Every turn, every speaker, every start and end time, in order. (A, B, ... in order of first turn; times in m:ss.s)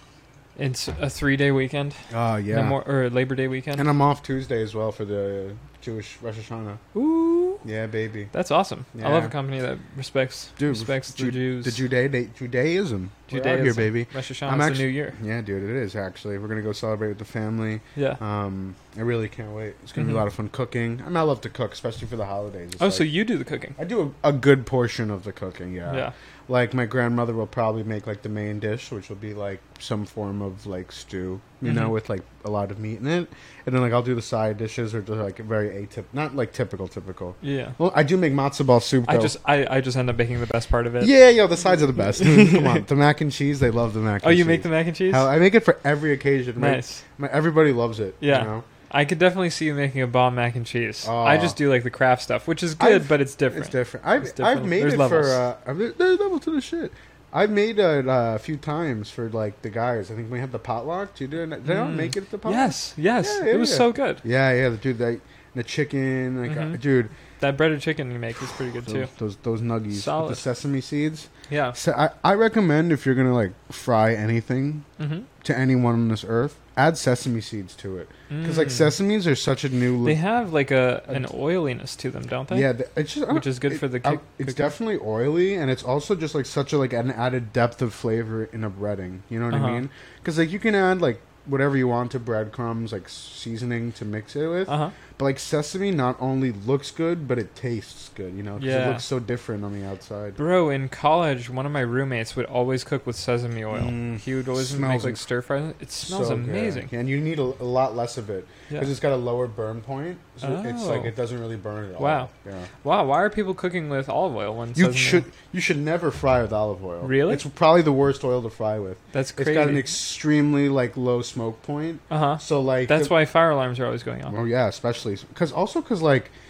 0:00.6-0:03.9 A
0:02.1-0:02.8 B
0:03.8-0:06.8 B
0:06.9-0:07.6 A
0:07.6-0:08.3 B
0:08.3-0:11.8 A
0:09.0-0:09.3 B
0:10.6-0:23.1 B
0:13.3-0:15.2 A
0:20.0-0:20.2 A
0:22.8-0:23.8 A
0:23.8-0:39.4 B
0:25.9-0:26.1 A
0:31.6-0:32.0 A
0:37.4-0:37.8 A
0:39.1-0:41.1 A
0:41.0-0:48.7 B
0:42.1-0:42.8 A
0:44.2-0:45.3 A
0:46.6-0:47.0 A
0:48.2-0:55.4 A
0:51.0-0:51.6 B
0:52.8-1:07.1 B
1:01.6-1:04.2 A
1:06.5-1:06.8 A
1:07.4-1:09.1 A
1:08.9-1:14.9 B
1:09.9-1:10.4 A
1:11.5-1:11.8 A
1:15.0-1:15.3 A
1:15.4-1:20.2 B
1:18.3-1:18.9 A
1:20.0-1:22.7 A
1:22.5-1:40.4 B
1:23.3-1:24.7 A
1:29.5-1:29.8 A
1:34.7-1:35.0 A
1:38.6-1:39.0 A
1:40.4-1:46.9 A
1:43.7-1:45.2 B
1:46.0-1:52.7 B
1:50.4-1:51.1 A
1:52.0-1:52.3 A
1:52.8-1:55.3 A
1:54.8-2:03.1 B
1:57.0-1:57.4 A
1:59.1-1:59.9 A
2:02.1-2:04.4 A
2:04.3-2:06.3 B